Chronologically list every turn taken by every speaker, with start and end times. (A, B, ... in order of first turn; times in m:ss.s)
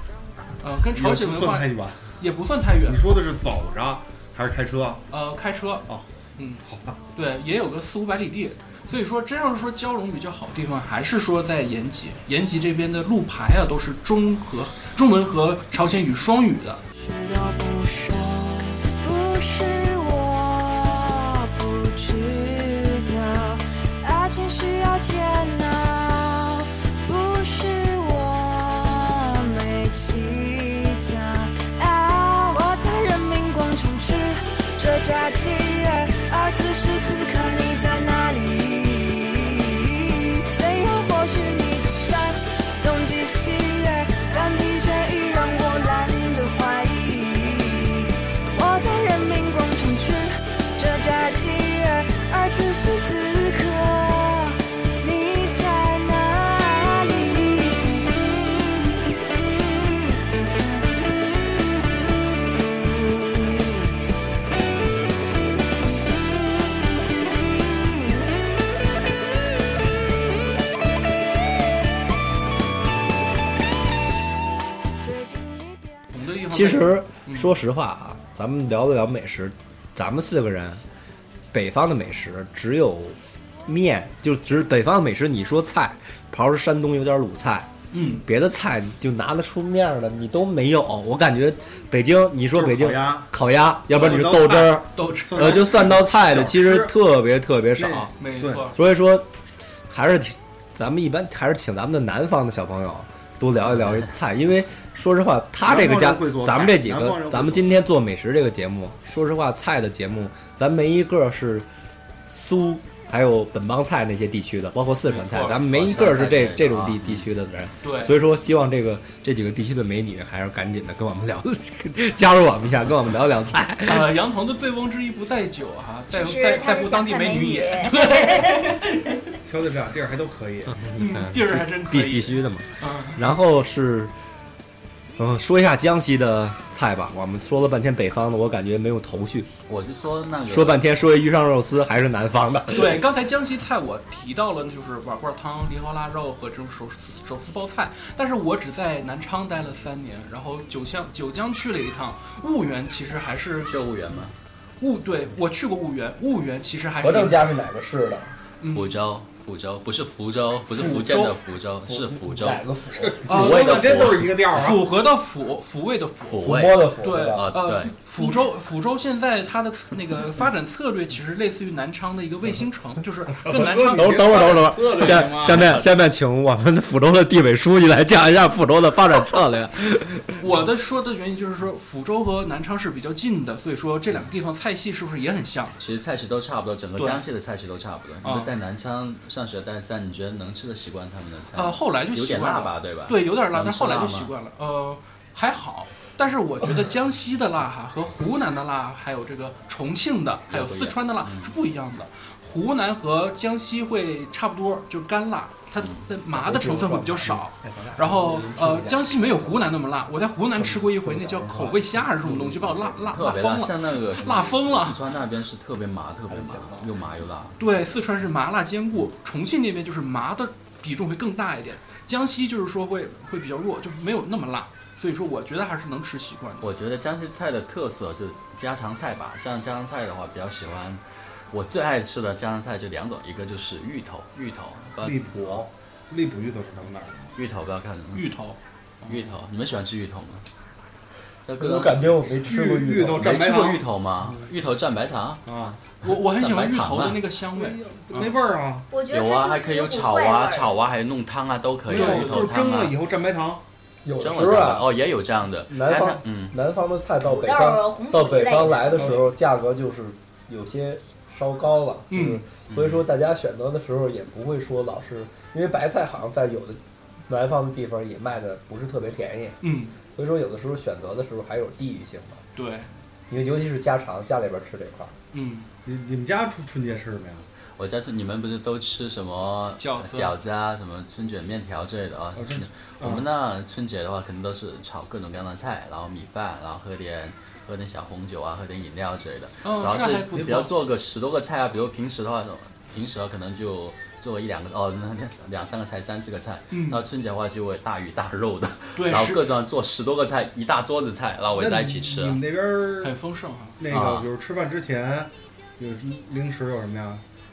0:00.6-0:01.7 A
0:00.9-0:02.1 B
0:02.2-0:03.0 A
0:02.8-0:05.0 B
0:05.1-0:06.6 A
0:06.6-0:07.0 B
0:07.1-0:16.8 A
0:16.9-0:58.7 C
1:15.0-1:16.1 C
1:16.1-1:17.5 A
1:16.5-1:20.8 D
1:21.5-1:38.1 D
1:27.9-1:28.2 A
1:32.5-1:33.3 B
1:33.9-1:36.9 B
1:35.0-1:35.7 A
1:37.8-1:38.7 B
1:38.2-1:38.8 A
1:38.7-1:39.3 D
1:39.9-1:51.7 D
1:43.7-1:44.1 E
1:45.6-1:47.8 B
1:52.3-2:04.2 D
1:55.2-1:57.3 E
1:57.8-1:58.2 A
2:03.8-2:09.3 A
2:06.1-2:08.7 F
2:09.4-2:10.8 B
2:10.7-2:14.1 D
2:11.0-2:13.2 A
2:15.2-2:19.5 D
2:19.7-2:20.9 E
2:20.5-2:23.0 D
2:22.7-2:33.8 A
2:33.6-2:34.3 E
2:34.8-2:37.5 A
2:37.0-2:38.3 D
2:38.6-2:39.0 A
2:38.7-2:42.6 E
2:40.8-2:41.2 D
2:40.8-2:41.3 A
2:41.8-2:44.0 D
2:42.9-2:44.8 B
2:43.3-2:43.7 A
2:43.3-2:44.3 E
2:44.5-2:55.8 A
2:46.3-2:48.0 E
2:46.4-2:47.5 D
2:53.4-2:55.8 B
2:53.9-3:00.4 D
3:00.4-3:05.8 A
3:05.8-3:14.3 E
3:07.0-3:07.2 A
3:08.2-3:08.5 A
3:11.5-3:35.0 A
3:20.5-3:21.6 E
3:25.8-3:26.0 E
3:26.3-3:29.6 D
3:30.6-3:33.0 D
3:32.2-3:32.9 B
3:33.1-3:37.6 E
3:36.3-3:36.9 D
3:37.6-3:46.7 A
3:46.6-3:55.6 E
3:55.0-3:57.1 B
3:57.4-3:58.3 E
3:58.1-3:59.3 A
3:59.1-4:00.4 E
4:01.4-4:02.4 E
4:01.6-4:03.5 D
4:02.4-4:04.4 B
4:03.1-4:05.4 E
4:05.4-4:05.8 B
4:06.0-4:07.2 E
4:06.0-4:08.4 A
4:07.5-4:08.8 B
4:08.9-4:10.8 F
4:09.1-4:12.9 E
4:11.9-4:12.5 A
4:11.9-4:13.6 B
4:14.0-4:14.9 D
4:14.2-4:16.5 E
4:15.7-4:29.6 D
4:17.2-4:19.1 F
4:18.9-4:19.2 B
4:22.1-4:22.4 A
4:22.7-4:23.0 E
4:29.6-4:30.0 A
4:30.1-4:32.4 D
4:32.6-4:32.9 A
4:33.3-4:35.1 D
4:35.3-4:35.7 A
4:35.8-4:37.5 B
4:37.8-5:02.4 E
4:39.8-4:40.3 A
4:42.4-4:43.2 B
4:49.6-4:50.7 A
4:56.7-4:57.0 A
4:59.0-4:59.5 A
5:01.5-5:03.2 B
5:03.0-5:03.8 A
5:03.8-5:07.2 B
5:03.9-5:04.3 E